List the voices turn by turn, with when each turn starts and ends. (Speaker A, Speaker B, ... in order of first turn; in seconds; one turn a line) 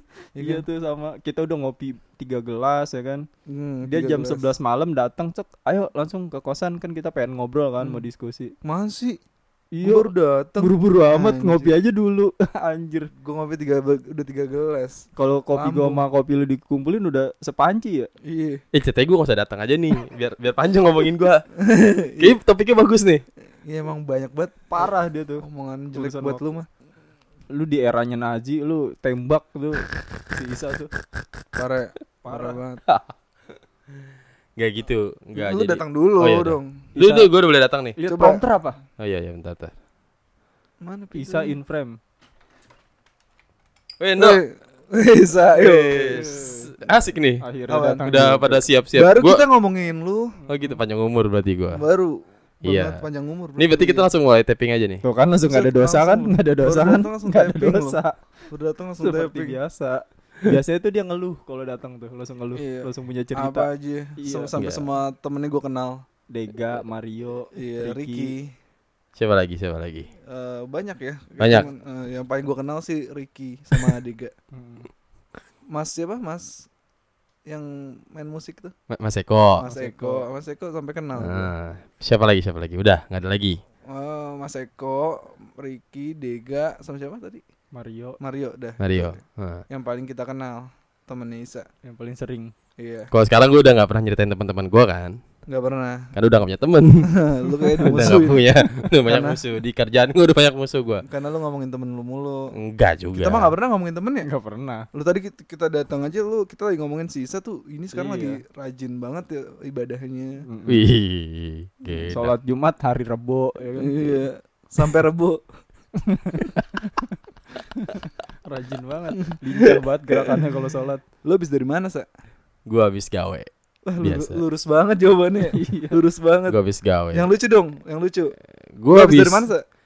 Speaker A: 0.3-3.2
Speaker B: 0.4-0.6
Speaker B: 3.5-4.5
Speaker A: 3.9-8.5
Speaker B: 8.6-9.2
Speaker A: 9.7-13.1
Speaker B: 9.8-11.7
Speaker B: 13.2-16.0
Speaker A: 15.2-18.1
Speaker B: 18.2-18.6
Speaker C: 18.7-21.4
Speaker B: 21.6-22.4
Speaker C: 22.2-23.2
Speaker B: 23.7-24.9
Speaker A: 24.7-26.4
Speaker B: 25.4-26.7
Speaker A: 27.5-30.9
Speaker B: 31.5-32.8
Speaker A: 32.2-32.6
Speaker C: 34.6-38.0
Speaker B: 35.3-37.3
Speaker A: 38.0-38.8
Speaker B: 38.1-38.4
Speaker C: 39.0-39.7
Speaker B: 40.8-41.5
Speaker A: 41.1-42.0
Speaker C: 44.0-44.4
Speaker B: 44.2-46.7
Speaker C: 45.6-47.4
Speaker A: 47.4-48.6
Speaker B: 47.7-48.2
Speaker C: 48.1-49.4
Speaker B: 48.9-50.4
Speaker A: 50.4-50.8
Speaker C: 50.5-51.8
Speaker B: 51.8-54.1
Speaker C: 52.6-53.0
Speaker C: 53.6-55.0
Speaker A: 55.0-58.4
Speaker B: 55.5-58.0
Speaker B: 58.5-59.6
Speaker A: 59.0-64.5
Speaker B: 62.5-66.0
Speaker C: 64.5-64.8
Speaker A: 66.3-68.3
Speaker B: 67.5-68.5
Speaker C: 69.2-70.1
Speaker B: 70.3-74.3
Speaker C: 71.4-71.7
Speaker A: 74.5-74.8
Speaker B: 75.7-76.7
Speaker B: 77.5-78.7
Speaker C: 78.9-79.7
Speaker B: 79.6-81.5
Speaker A: 79.7-80.3
Speaker C: 81.2-83.6
Speaker B: 83.9-87.4
Speaker A: 87.7-88.2
Speaker B: 88.2-89.2
Speaker C: 88.8-89.6
Speaker B: 89.7-91.7
Speaker A: 91.8-92.5
Speaker B: 92.8-93.1
Speaker C: 93.1-95.2
Speaker B: 95.5-96.1
Speaker C: 96.2-97.1
Speaker B: 97.0-98.4
Speaker C: 97.8-101.0
Speaker B: 99.0-99.4
Speaker B: 101.0-102.5
Speaker C: 102.5-103.5
Speaker B: 103.1-104.3
Speaker A: 104.2-104.8
Speaker B: 104.9-110.4
Speaker A: 107.9-108.4
Speaker A: 110.5-110.9
Speaker C: 110.7-112.3
Speaker A: 112.1-114.2
Speaker B: 113.7-115.4
Speaker A: 116.0-117.1
Speaker A: 117.8-121.0
Speaker B: 121.2-122.0
Speaker C: 122.7-123.5
Speaker B: 123.9-126.6
Speaker C: 124.0-124.4
Speaker A: 125.5-126.0
Speaker C: 126.5-127.3
Speaker B: 127.1-128.3
Speaker C: 128.8-129.5
Speaker B: 128.9-129.6